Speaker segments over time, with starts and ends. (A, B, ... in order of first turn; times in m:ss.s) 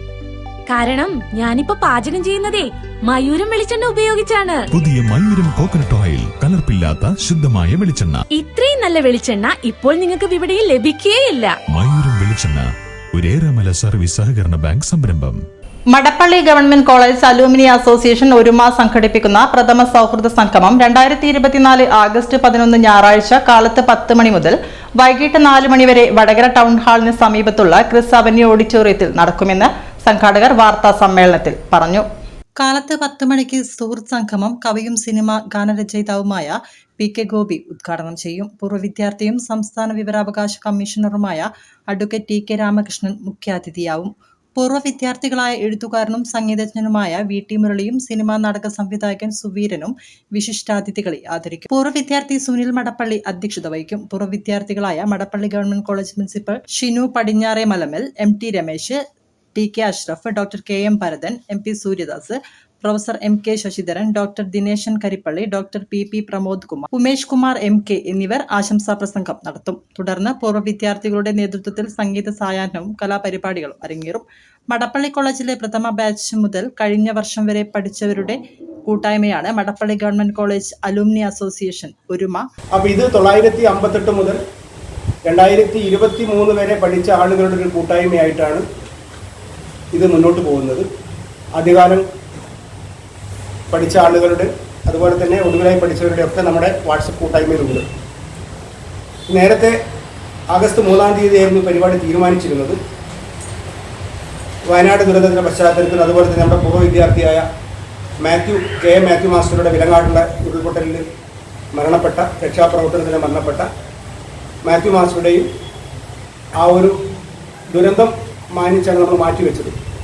0:00.7-0:04.6 A
0:04.7-0:08.2 B
0:08.3-0:11.5 A
0:11.7-0:15.4 B
0:15.9-0:32.0 C
0:32.6-0:59.0 C
0:59.5-1:22.4 C
1:22.7-1:24.4 D
1:25.2-1:28.6 D
1:29.9-1:30.9 D
1:31.6-1:32.0 D
1:33.7-1:37.9 D
1:39.3-1:39.8 D
1:40.5-1:42.8 D
1:44.7-1:47.4 D
1:48.2-1:51.0 D
1:51.7-1:53.7 D
1:54.6-1:55.5 D
1:56.6-1:56.9 D
1:57.7-1:59.8 D